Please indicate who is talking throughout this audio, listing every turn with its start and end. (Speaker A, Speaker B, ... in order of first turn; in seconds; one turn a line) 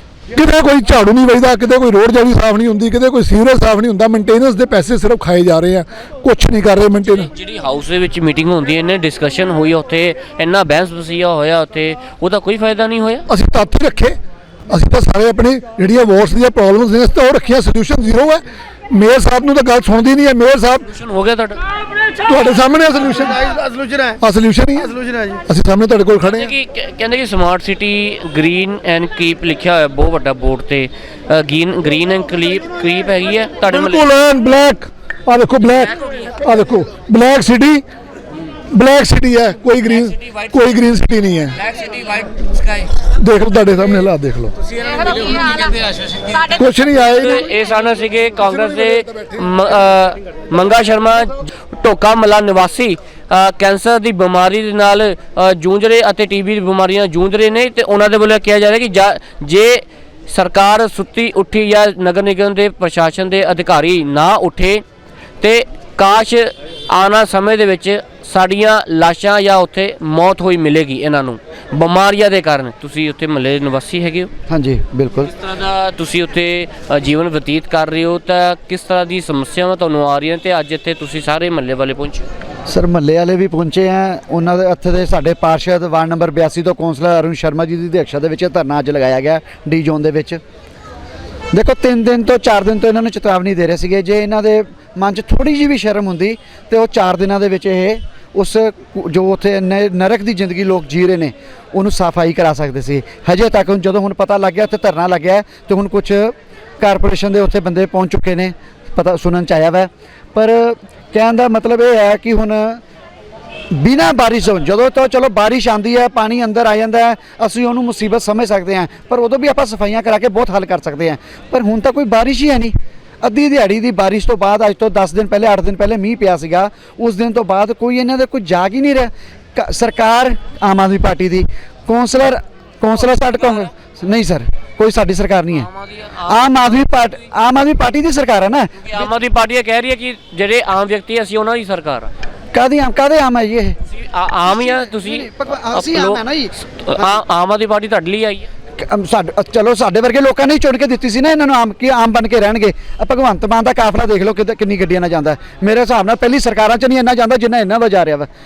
Speaker A: 0.3-7.3
Speaker B: 7.2-13.2
Speaker A: 13.3-14.2
Speaker A: 14.7-20.9
Speaker B: 20.9-21.6
Speaker A: 22.3-23.5
Speaker A: 24.2-24.9
Speaker A: 25.5-26.5
Speaker B: 26.2-34.1
Speaker A: 33.7-37.8
Speaker A: 38.7-41.6
Speaker A: 43.2-44.5
Speaker A: 46.5-47.4
Speaker B: 47.1-64.8
Speaker B: 65.4-74.3
Speaker C: 74.5-75.3
Speaker B: 75.3-82.2
Speaker C: 82.7-90.4
Speaker C: 91.5-112.8
Speaker C: 113.7-135.7
Speaker B: 135.5-136.4
Speaker C: 136.3-138.7
Speaker B: 138.8-142.1
Speaker C: 142.5-143.8
Speaker B: 143.9-146.2
Speaker C: 144.5-146.5
Speaker B: 146.8-148.5
Speaker C: 148.8-158.3